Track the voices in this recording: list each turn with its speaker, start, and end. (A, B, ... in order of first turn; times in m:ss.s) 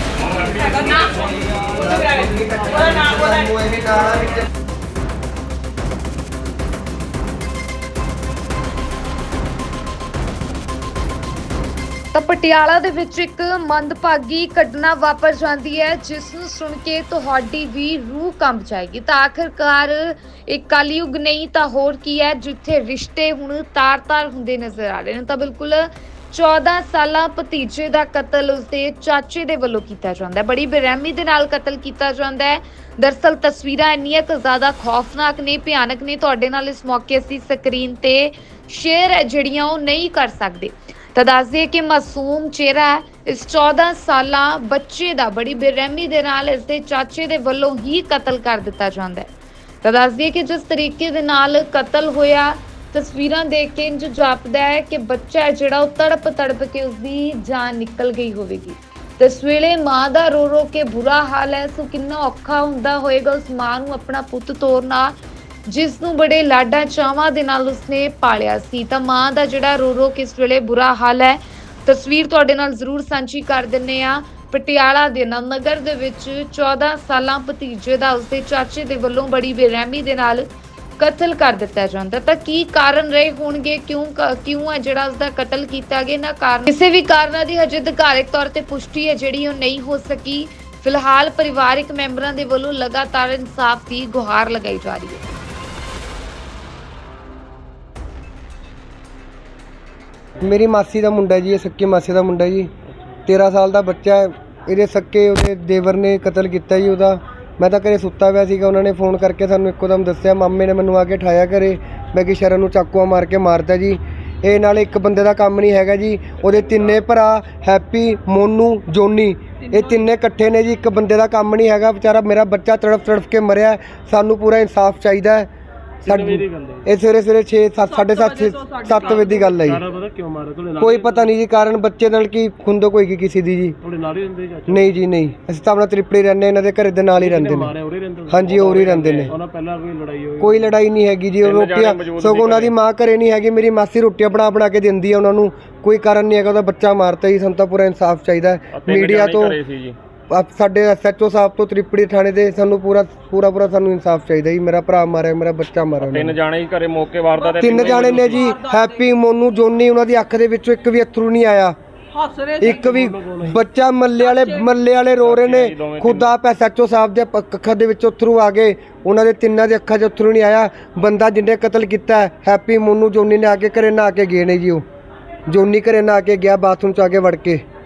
0:00.6-0:01.0 A
0:01.5-0:04.5 B
0:12.1-0:49.3 C
0:49.8-1:05.2 C
1:05.7-1:35.2 C
1:40.4-1:42.7 B
1:43.2-2:05.5 B
2:06.0-2:09.8 B
2:06.0-2:06.9 D
2:07.9-2:09.6 A
2:09.1-2:11.3 D
2:10.8-2:13.8 B
2:13.8-2:14.9 D
2:14.7-2:17.7 B
2:17.2-2:20.7 D
2:18.3-2:19.3 B
2:18.6-2:19.3 E
2:20.4-2:29.6 B
2:21.4-2:22.7 E
2:28.7-2:30.0 E
2:30.3-2:36.4 B
2:36.0-2:38.5 E
2:37.4-2:38.9 A
2:37.6-2:41.8 B
2:42.1-2:42.8 A
2:42.6-2:54.8 B
2:42.6-2:43.6 D
2:44.2-2:44.7 A
2:45.2-2:46.3 E
2:55.5-2:57.6 B